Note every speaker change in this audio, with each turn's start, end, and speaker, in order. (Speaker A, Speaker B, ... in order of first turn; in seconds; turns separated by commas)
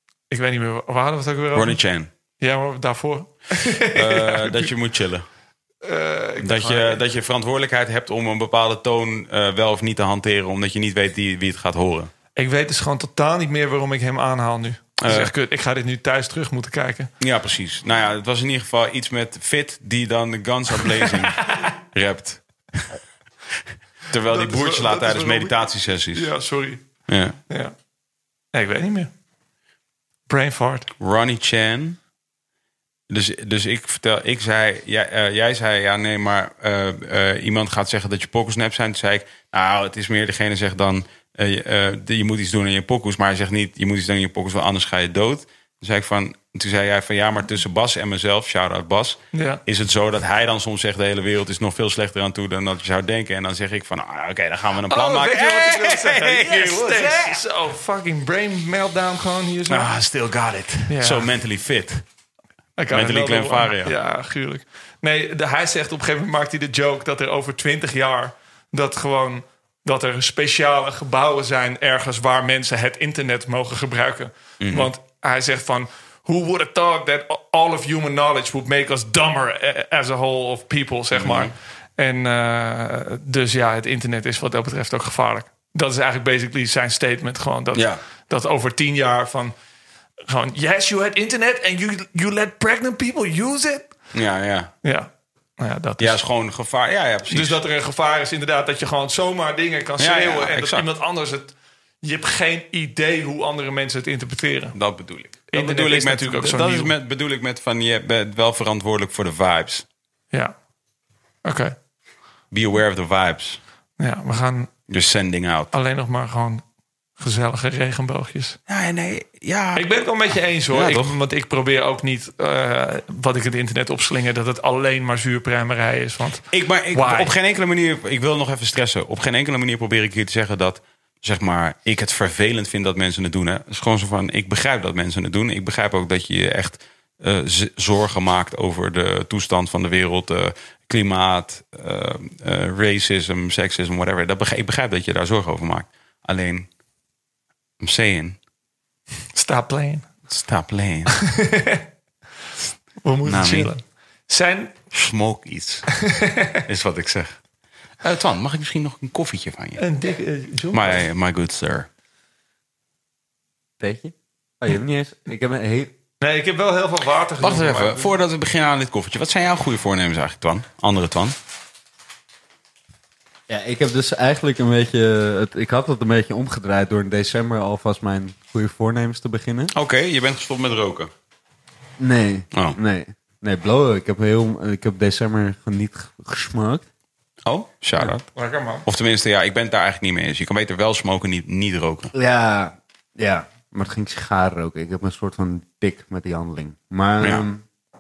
Speaker A: 0.3-1.8, Speaker B: 1.6-2.1, Speaker A: 2.4-4.7, Speaker B: 3.9-5.3, Speaker A: 5.8-7.0, Speaker B: 6.4-12.1, Speaker A: 12.3-17.1, Speaker B: 15.0-15.3, Speaker B: 17.2-22.9, Speaker A: 20.9-21.6, Speaker B: 24.1-26.3, Speaker A: 24.3-26.8, Speaker B: 27.1-27.4, Speaker A: 27.5-27.7, Speaker A: 28.5-29.1, Speaker A: 30.3-30.9, Speaker B: 31.0-32.0, Speaker B: 33.1-57.4, Speaker A: 49.3-49.6, Speaker A: 54.9-59.9, Speaker B: 59.7-62.0, Speaker A: 60.9-61.3, Speaker A: 62.8-89.5, Speaker B: 62.9-64.0, Speaker B: 74.6-74.9, Speaker B: 81.1-81.5, Speaker B: 87.7-88.0, Speaker A: 90.3-93.9, Speaker B: 94.1-94.7, Speaker A: 94.8-96.2, Speaker B: 96.0-97.6, Speaker A: 97.3-104.7, Speaker B: 100.0-100.9, Speaker B: 104.7-109.9, Speaker A: 105.5-106.9, Speaker A: 111.4-111.7, Speaker B: 112.5-113.6, Speaker A: 114.0-114.7, Speaker B: 114.9-115.7, Speaker A: 115.7-116.6, Speaker A: 117.2-118.6, Speaker B: 118.7-119.8, Speaker A: 119.8-127.3, Speaker B: 120.7-121.2, Speaker B: 126.5-146.7, Speaker B: 147.8-148.4, Speaker A: 149.3-150.1, Speaker B: 150.3-151.1, Speaker A: 151.1-151.9, Speaker A: 153.0-154.7, Speaker B: 153.2-153.7, Speaker B: 154.9-155.9, Speaker A: 156.0-156.6, Speaker B: 156.7-157.4, Speaker B: 158.0-159.8, Speaker A: 159.8-161.0, Speaker B: 160.7-161.9, Speaker C: 163.8-165.9, Speaker A: 166.2-168.1, Speaker B: 167.4-171.4, Speaker C: 173.5-179.7, Speaker B: 179.7-181.1, Speaker C: 182.0-186.8, Speaker B: 182.5-182.8, Speaker B: 187.4-188.3, Speaker A: 188.3-188.9, Speaker B: 188.8-192.1, Speaker C: 192.1-197.6